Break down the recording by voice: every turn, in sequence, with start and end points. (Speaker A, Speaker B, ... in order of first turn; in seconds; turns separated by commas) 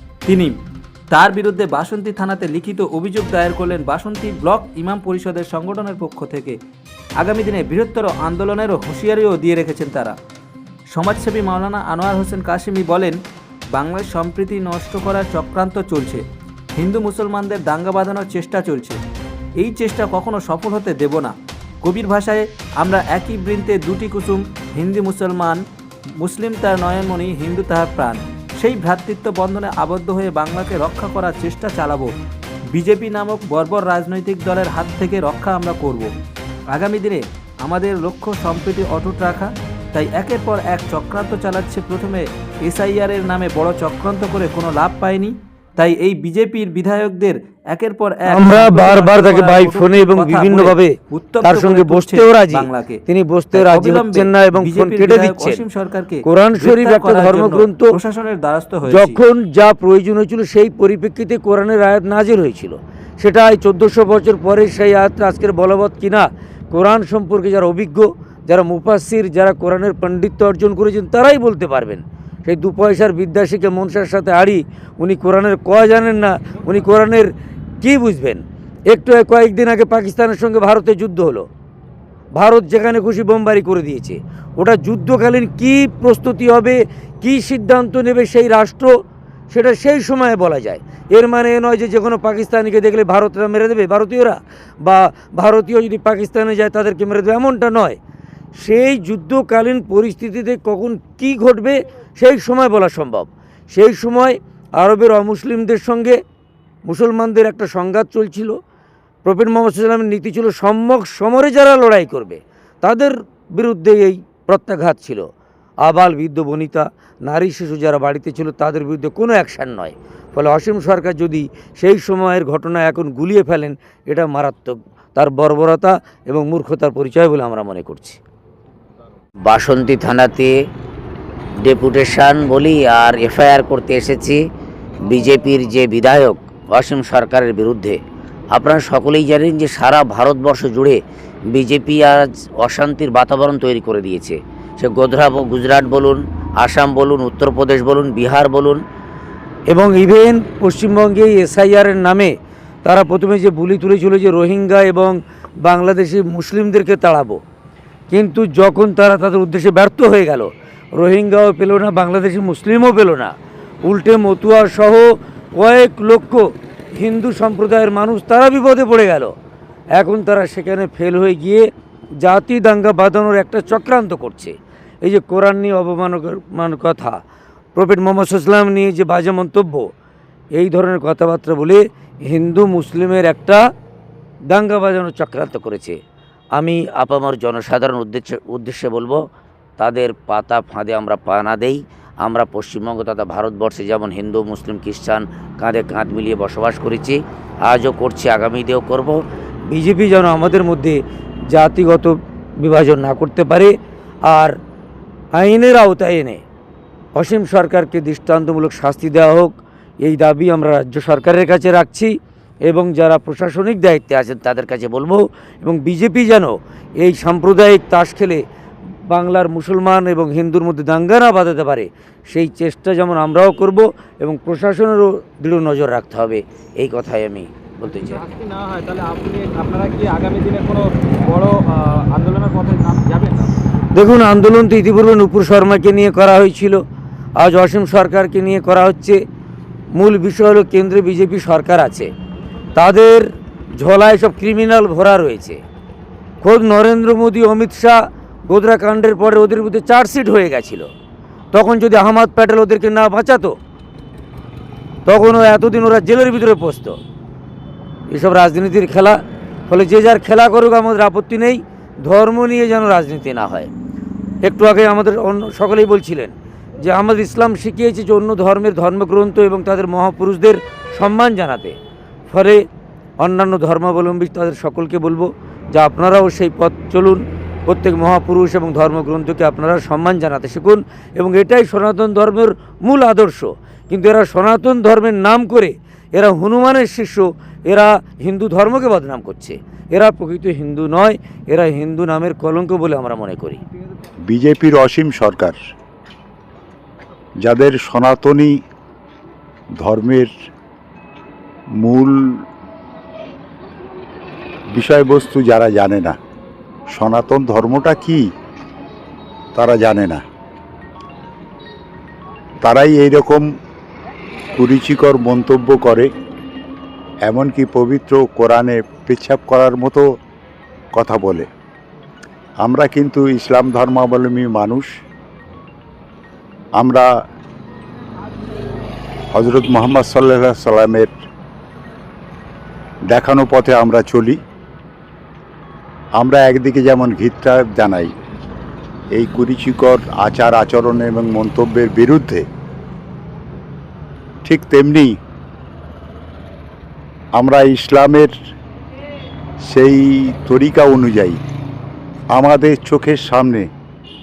Speaker A: 0.2-0.6, Speaker A: 1.1-6.6, Speaker A: 7.2-10.2, Speaker A: 10.9-13.2, Speaker A: 13.7-16.2, Speaker A: 16.8-19.0, Speaker A: 19.6-25.6, Speaker A: 26.2-32.1, Speaker A: 32.7-36.1, Speaker A: 36.7-53.0, Speaker B: 48.3-55.6, Speaker A: 53.5-59.2, Speaker B: 56.2-57.9, Speaker B: 58.9-77.3, Speaker B: 77.8-81.5, Speaker B: 82.4-88.9, Speaker B: 89.5-98.0, Speaker B: 98.6-106.2, Speaker B: 106.8-108.5, Speaker B: 109.2-115.3, Speaker B: 115.8-128.2, Speaker C: 129.4-130.5, Speaker C: 131.6-134.4, Speaker C: 135.0-138.0, Speaker C: 138.5-141.0, Speaker C: 141.5-148.8, Speaker B: 149.7-152.3, Speaker B: 152.8-157.4, Speaker B: 158.1-163.3, Speaker B: 163.8-166.4, Speaker B: 166.9-169.3, Speaker B: 170.0-171.7, Speaker B: 172.2-177.2, Speaker B: 177.8-179.9, Speaker B: 180.5-183.6, Speaker B: 184.5-185.7, Speaker C: 185.7-186.0, Speaker B: 186.6-186.9, Speaker C: 186.9-189.2, Speaker C: 189.8-199.2, Speaker B: 199.7-201.0, Speaker B: 201.5-203.7, Speaker B: 204.3-204.5, Speaker B: 205.3-206.4, Speaker B: 207.2-212.1, Speaker B: 212.7-218.4, Speaker B: 219.1-226.2, Speaker C: 226.2-228.2, Speaker D: 228.0-233.5, Speaker B: 233.9-236.8, Speaker B: 237.4-239.2, Speaker B: 239.9-242.1, Speaker B: 242.8-243.2, Speaker B: 243.8-245.6, Speaker B: 246.4-250.9, Speaker B: 251.5-253.5, Speaker B: 255.1-257.0, Speaker B: 258.1-259.2, Speaker B: 259.7-263.7, Speaker B: 264.4-271.8, Speaker B: 272.3-272.6, Speaker B: 273.2-293.6, Speaker E: 294.3-295.6, Speaker E: 297.4-298.6, Speaker E: 299.8-300.3, Speaker E: 301.8-302.4, Speaker E: 304.7-306.1, Speaker E: 306.9-308.3, Speaker E: 309.5-310.2, Speaker E: 312.6-313.4, Speaker E: 314.5-316.1, Speaker E: 317.2-320.1, Speaker E: 320.9-321.5, Speaker E: 322.6-324.9, Speaker E: 326.8-327.1, Speaker E: 329.3-331.1, Speaker E: 333.1-334.4, Speaker E: 336.1-338.1, Speaker E: 339.1-342.4, Speaker E: 344.4-345.1, Speaker E: 347.3-348.3, Speaker E: 349.7-351.4, Speaker E: 352.3-353.7